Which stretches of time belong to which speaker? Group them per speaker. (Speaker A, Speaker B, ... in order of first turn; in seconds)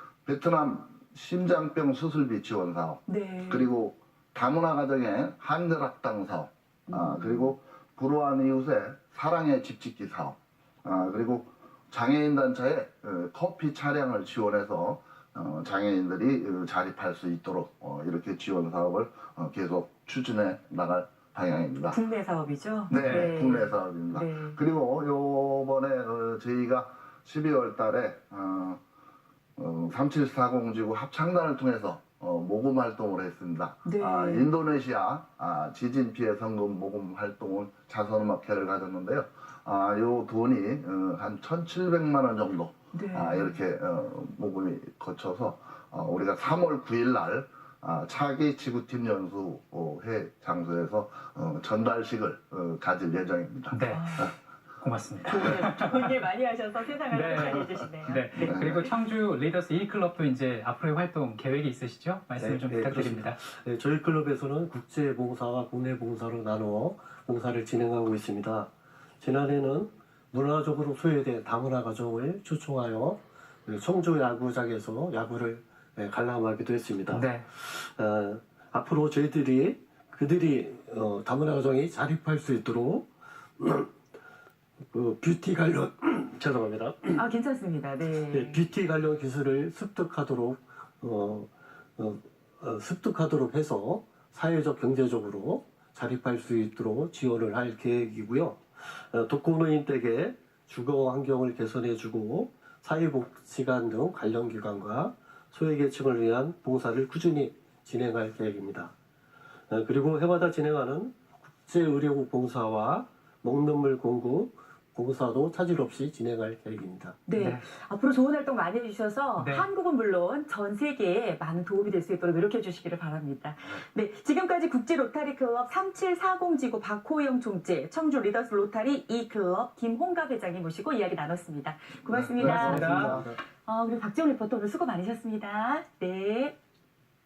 Speaker A: 0.2-22.0, 22.9-28.8, 29.6-54.3, 58.4-58.9, 132.1-133.3
Speaker B: 3.1-3.7, 6.9-7.5, 21.9-24.6, 33.8-34.5, 42.9-43.5, 53.9-54.3, 55.2-58.6, 87.1-88.6, 117.3-136.6
Speaker C: 23.0-23.3, 53.7-54.3, 54.8-56.1, 57.1-63.4, 77.1-77.4, 117.4-117.6, 119.4-119.7, 132.4-133.1
Speaker D: 62.4-68.7, 69.2-83.1, 83.6-83.9, 84.9-87.2, 88.3-108.9, 109.7-117.2